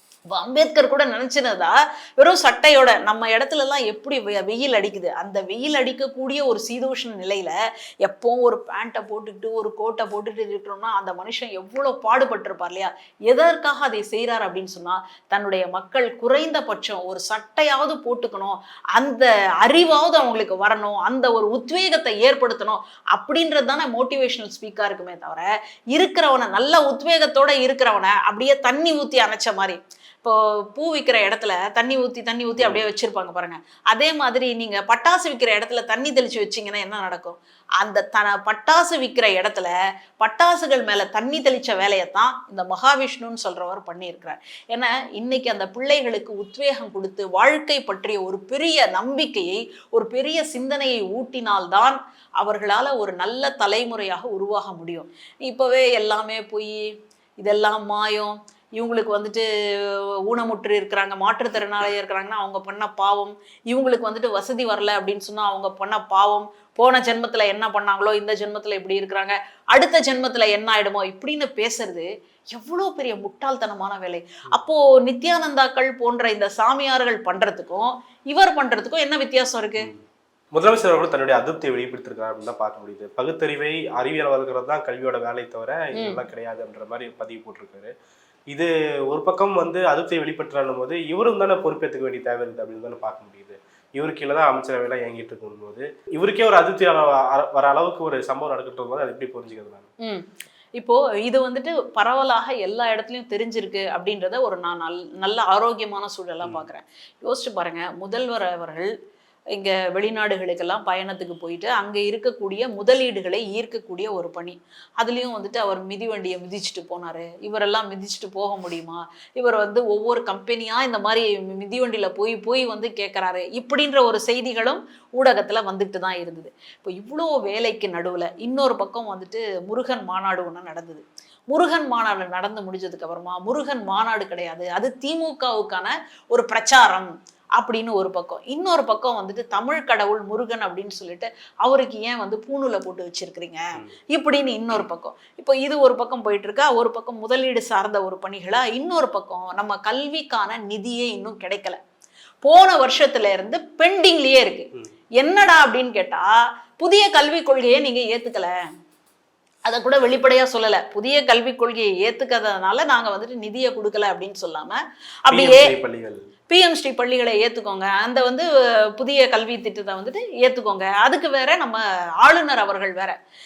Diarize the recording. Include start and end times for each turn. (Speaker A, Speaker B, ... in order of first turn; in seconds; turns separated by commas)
Speaker A: 0.3-56.9, Speaker B: 32.6-32.9, Speaker A: 57.4-79.9, Speaker B: 80.5-87.9, Speaker A: 86.0-86.2, Speaker B: 88.5-99.9, Speaker A: 100.8-108.9, Speaker A: 109.5-151.8, Speaker A: 152.4-158.6, Speaker A: 159.7-165.7, Speaker B: 165.3-166.2, Speaker A: 166.5-173.1